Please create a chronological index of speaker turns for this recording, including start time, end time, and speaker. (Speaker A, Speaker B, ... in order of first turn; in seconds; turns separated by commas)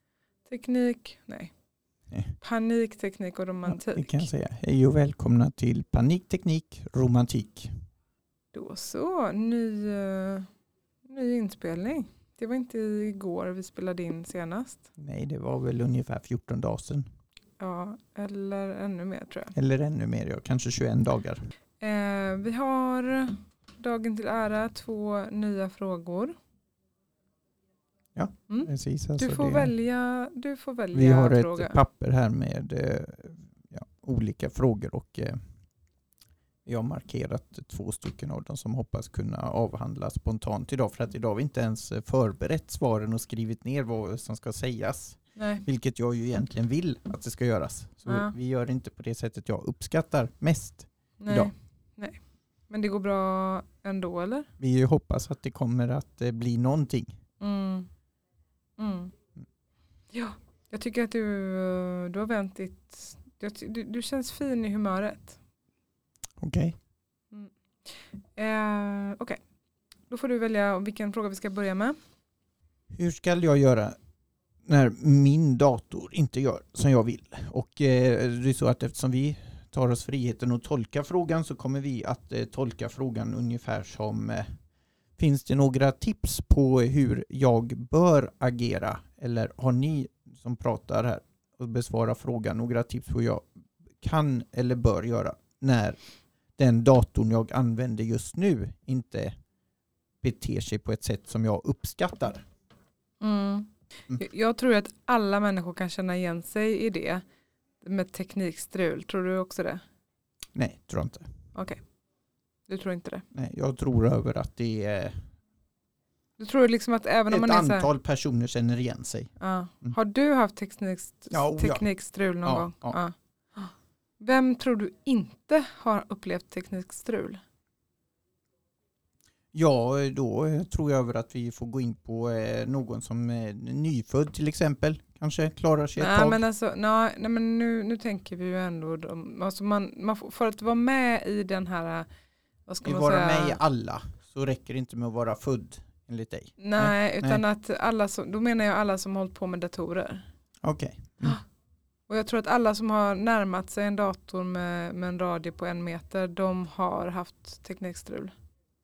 Speaker A: 0.5-1.5, Speaker B: 2.1-2.4, Speaker A: 2.4-4.3, Speaker B: 3.7-7.9, Speaker A: 8.5-10.5, Speaker A: 11.1-14.8, Speaker B: 15.0-17.1, Speaker A: 17.6-19.5, Speaker B: 19.5-21.4, Speaker A: 21.8-26.4, Speaker B: 28.1-29.7, Speaker A: 28.5-31.8, Speaker B: 30.9-35.5, Speaker B: 36.6-51.5, Speaker A: 45.4-45.6, Speaker A: 48.1-48.3, Speaker A: 51.2-54.5, Speaker B: 54.6-57.2, Speaker A: 57.4-57.9, Speaker A: 58.8-59.1, Speaker A: 60.1-65.4, Speaker B: 66.4-66.8, Speaker A: 67.3-69.4, Speaker A: 70.1-72.0, Speaker B: 72.9-74.0, Speaker B: 74.7-84.6, Speaker B: 85.2-96.0, Speaker B: 96.6-99.4, Speaker B: 100.2-102.5, Speaker A: 103.2-107.2, Speaker A: 107.8-109.8, Speaker B: 110.5-111.3, Speaker A: 111.5-111.8, Speaker A: 112.7-113.3, Speaker B: 113.3-115.3, Speaker A: 116.4-117.9, Speaker B: 117.3-120.0, Speaker A: 119.4-127.4, Speaker B: 121.3-121.9, Speaker B: 122.4-123.0, Speaker B: 129.5-136.4, Speaker A: 136.0-142.1, Speaker A: 142.7-143.6, Speaker B: 142.8-147.4, Speaker A: 146.6-150.3, Speaker B: 150.6-151.4, Speaker A: 152.1-158.3